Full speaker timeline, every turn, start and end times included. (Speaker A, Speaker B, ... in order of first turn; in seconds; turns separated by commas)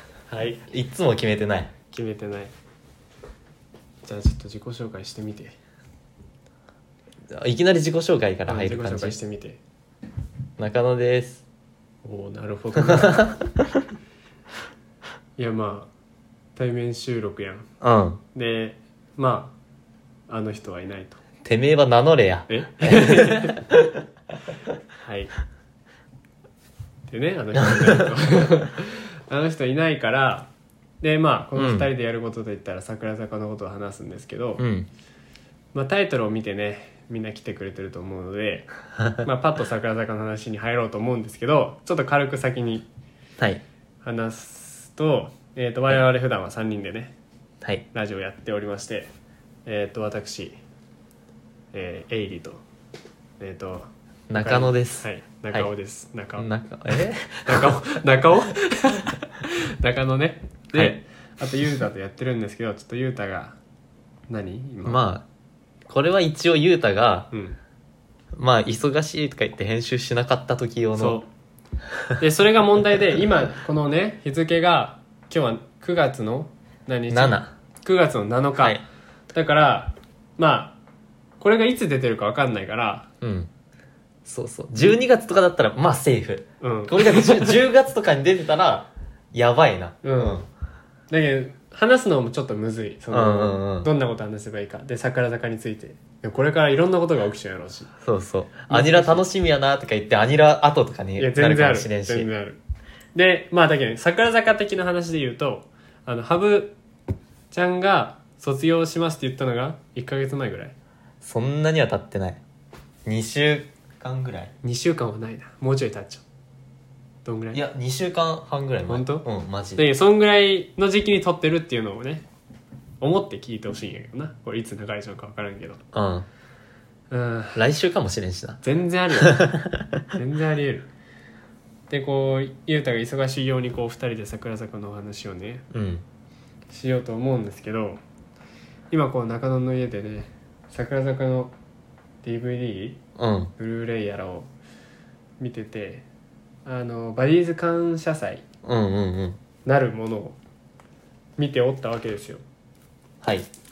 Speaker A: 0.3-0.6, Speaker B: 0.7-1.7, Speaker A: 1.9-2.5, Speaker A: 4.0-5.5, Speaker B: 7.3-9.2, Speaker A: 8.5-9.6, Speaker B: 10.6-11.4, Speaker A: 12.0-13.2, Speaker B: 13.1-13.4, Speaker A: 15.4-15.9, Speaker A: 16.6-17.7, Speaker B: 17.8-18.2, Speaker A: 18.3-19.5, Speaker A: 20.3-21.2, Speaker B: 21.4-23.8, Speaker A: 22.5-23.6, Speaker A: 25.0-25.3, Speaker A: 27.1-30.5, Speaker B: 27.6-28.0, Speaker A: 31.0-34.6, Speaker B: 31.6-31.9, Speaker B: 34.6-34.9, Speaker A: 35.7-42.9, Speaker A: 44.0-47.1, Speaker A: 47.9-49.1, Speaker A: 49.6-50.5, Speaker A: 51.7-52.6, Speaker A: 53.4-56.5, Speaker B: 54.3-55.7, Speaker B: 56.4-57.8, Speaker A: 57.5-63.6, Speaker A: 64.3-65.0, Speaker B: 64.8-65.2, Speaker B: 65.9-67.3, Speaker A: 67.3-67.6, Speaker B: 68.3-71.2, Speaker A: 71.0-71.3, Speaker A: 72.2-78.8, Speaker B: 77.1-77.5, Speaker A: 79.3-80.8, Speaker A: 81.4-83.1, Speaker B: 83.2-83.5, Speaker B: 84.2-90.4, Speaker A: 86.6-87.6, Speaker A: 90.0-90.5, Speaker A: 91.1-97.9, Speaker B: 93.1-93.9, Speaker B: 98.0-102.3, Speaker A: 98.7-99.2, Speaker A: 101.2-102.6, Speaker A: 103.1-106.8, Speaker A: 107.5-110.7, Speaker B: 111.2-112.4, Speaker B: 113.0-114.5, Speaker A: 114.6-116.2, Speaker A: 117.2-117.6, Speaker B: 117.5-119.8, Speaker A: 118.9-122.2, Speaker A: 123.0-125.8, Speaker B: 125.9-126.2, Speaker A: 127.1-127.6, Speaker B: 127.5-128.6, Speaker A: 128.6-129.6, Speaker B: 129.2-129.8, Speaker A: 130.1-130.9, Speaker A: 131.9-135.6, Speaker B: 135.7-136.0, Speaker A: 136.7-138.0, Speaker A: 138.9-141.5, Speaker A: 142.2-143.0, Speaker B: 143.2-143.5, Speaker A: 143.6-144.5, Speaker A: 145.4-146.0, Speaker A: 146.6-148.4, Speaker B: 148.6-149.4, Speaker A: 149.7-150.4, Speaker A: 151.4-152.4, Speaker B: 153.2-153.5